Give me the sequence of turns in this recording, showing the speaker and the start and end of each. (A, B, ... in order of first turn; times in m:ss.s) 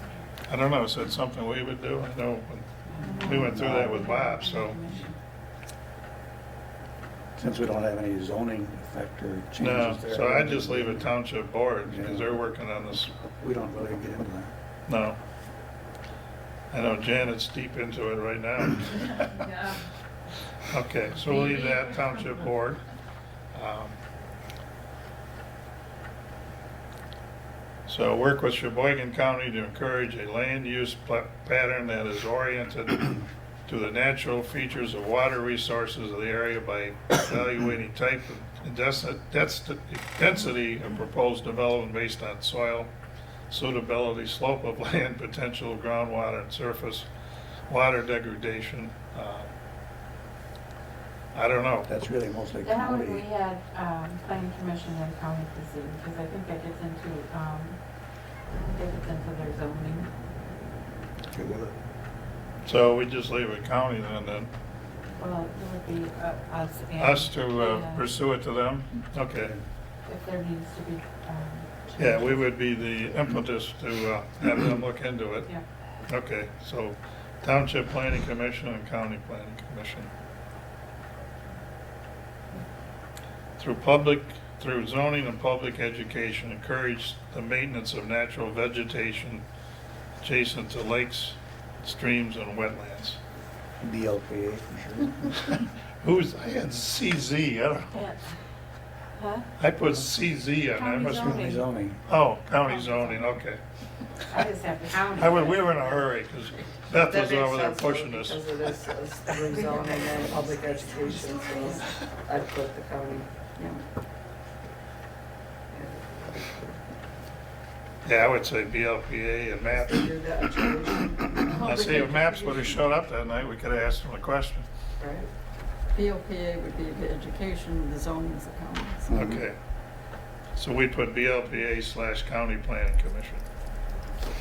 0:00.5-0:04.8 A
0:02.8-0:05.2 B
0:03.2-0:04.2 C
0:07.4-0:11.2 C
0:09.6-0:13.2 A
0:11.8-0:12.4 C
0:13.4-0:14.5 C
0:14.9-0:15.2 A
0:16.7-0:19.6 A
0:19.2-0:19.7 B
0:20.7-0:22.8 A
0:21.3-0:22.0 B
0:23.5-0:24.0 A
0:27.9-0:42.9 A
0:43.5-0:47.1 A
0:47.7-0:49.5 A
0:51.3-0:51.9 A
0:51.8-0:53.2 C
0:52.6-0:57.8 B
0:58.5-1:00.1 B
1:01.3-1:01.8 C
1:02.6-1:04.5 A
1:05.2-1:08.1 B
1:07.0-1:09.5 A
1:09.3-1:09.6 C
1:10.0-1:12.5 B
1:12.0-1:15.5 A
1:16.0-1:20.1 A
1:23.6-1:29.4 A
1:30.2-1:33.2 A
1:33.8-1:35.5 C
1:35.5-1:38.0 A
1:37.9-1:38.3 B
1:39.1-1:39.5 B
1:39.6-1:41.5 A
1:40.6-1:41.6 B
1:41.2-1:42.0 C
1:42.0-1:43.6 A
1:42.6-1:43.2 B
1:44.3-1:46.0 B
1:45.2-1:48.4 A
1:46.9-1:53.3 D
1:49.4-1:51.9 B
1:53.6-1:53.8 E
1:55.7-1:56.8 D
1:58.0-2:00.1 A
1:59.6-2:01.9 D
2:01.4-2:02.9 E
2:01.5-2:04.6 A
2:05.0-2:05.3 D
2:05.9-2:09.1 E
2:09.1-2:09.6 A
2:09.1-2:09.4 C
2:10.5-2:13.4 A